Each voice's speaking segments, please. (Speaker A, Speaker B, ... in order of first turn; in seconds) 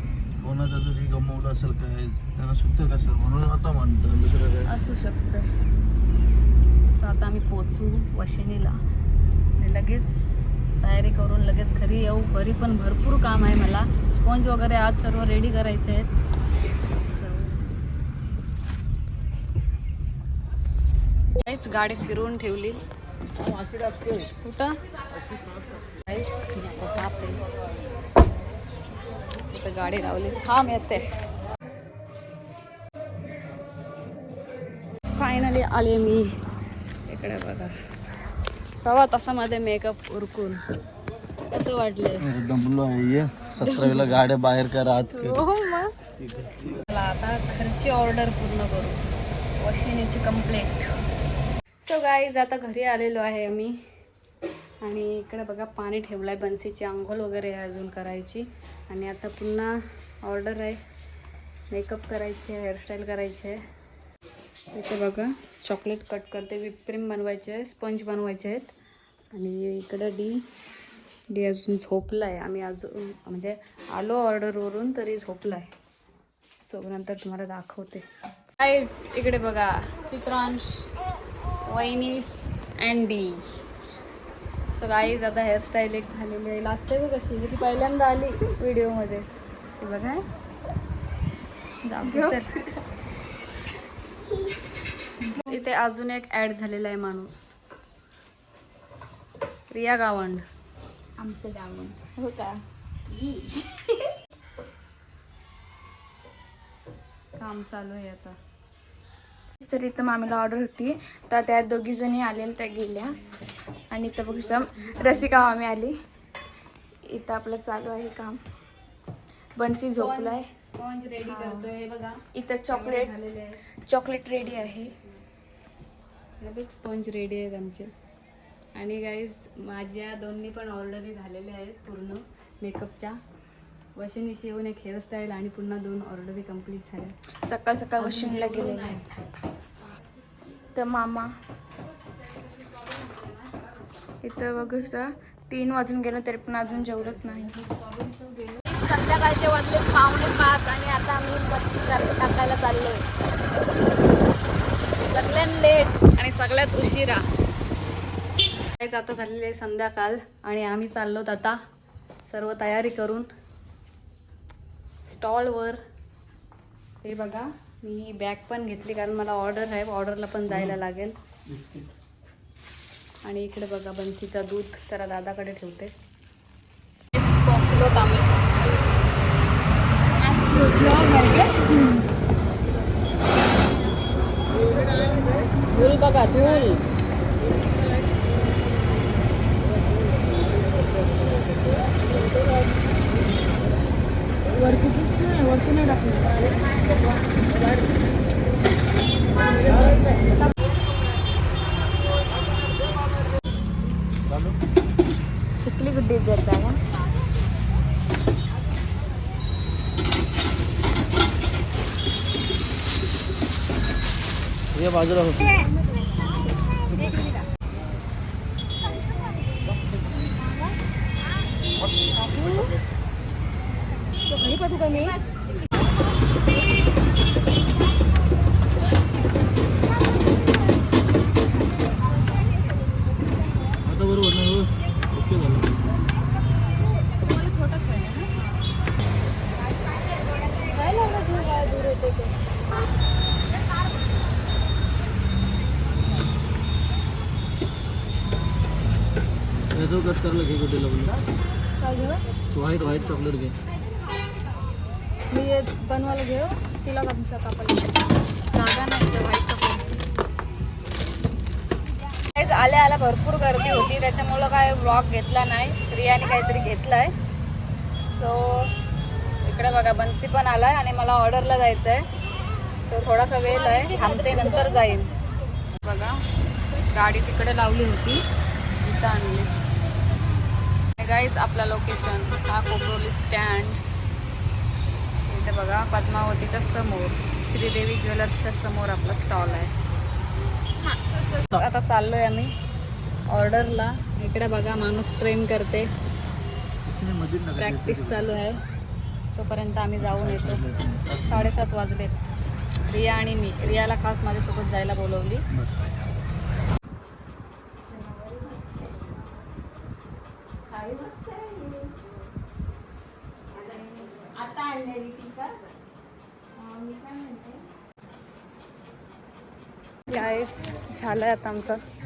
Speaker A: 0.4-4.7, 23.4-24.1, 42.2-45.5, 46.2-46.7, 171.5-171.9, 204.3-204.6, 214.7-215.6, 216.9-217.3, 233.8-235.7, 249.7-251.2, 252.5-253.6, 296.9-298.4, 300.0-301.5
Speaker B: 4.7-5.5, 6.9-8.8, 9.6-16.1, 17.0-17.7, 21.4-22.8, 24.4-24.8, 26.1-27.4, 29.5-31.1, 35.2-36.4, 37.1-37.7, 38.8-40.6, 41.5-42.3, 43.6-44.2, 45.1-45.9, 46.9-49.0, 49.6-50.9, 51.9-53.8, 54.8-60.8, 61.7-63.6, 64.7-68.7, 69.3-70.5, 71.3-75.7, 76.7-78.0, 78.6-80.9, 81.7-83.5, 84.8-89.3, 89.8-90.2, 91.8-92.5, 95.4-97.5, 99.7-100.5, 101.4-101.9, 107.4-108.4, 114.3-115.5, 120.0-123.6, 126.4-127.9, 128.8-133.2, 134.0-137.2, 138.0-139.1, 142.5-143.6, 146.8-153.1, 155.1-157.2, 158.8-161.6, 162.3-163.3, 165.1-165.8, 167.0-171.2, 173.2-175.9, 177.1-178.3, 180.2-182.0, 185.7-186.8, 194.5-196.4, 222.3-222.7, 224.3-225.2, 237.2-238.4, 240.6-242.3, 251.8-252.2, 255.3-257.9, 258.5-260.0, 262.3-267.1, 268.1-268.7, 269.4-272.1, 272.8-275.1, 275.8-276.2, 276.8-278.2, 278.8-279.5, 281.0-283.8, 285.3-289.7, 291.2-292.5, 293.3-295.9, 297.5-298.6, 299.4-300.6, 301.2-302.3, 302.9-305.4, 320.1-321.8
Speaker C: 92.0-92.5, 101.2-102.6, 109.6-113.2, 113.9-116.0, 117.1-118.4, 119.6-120.5, 121.3-121.7, 122.3-123.1, 123.9-124.9, 137.4-139.0, 140.7-141.3, 144.2-147.6, 205.6-206.8, 307.9-308.5, 310.8-312.1, 313.6-315.3, 316.6-317.4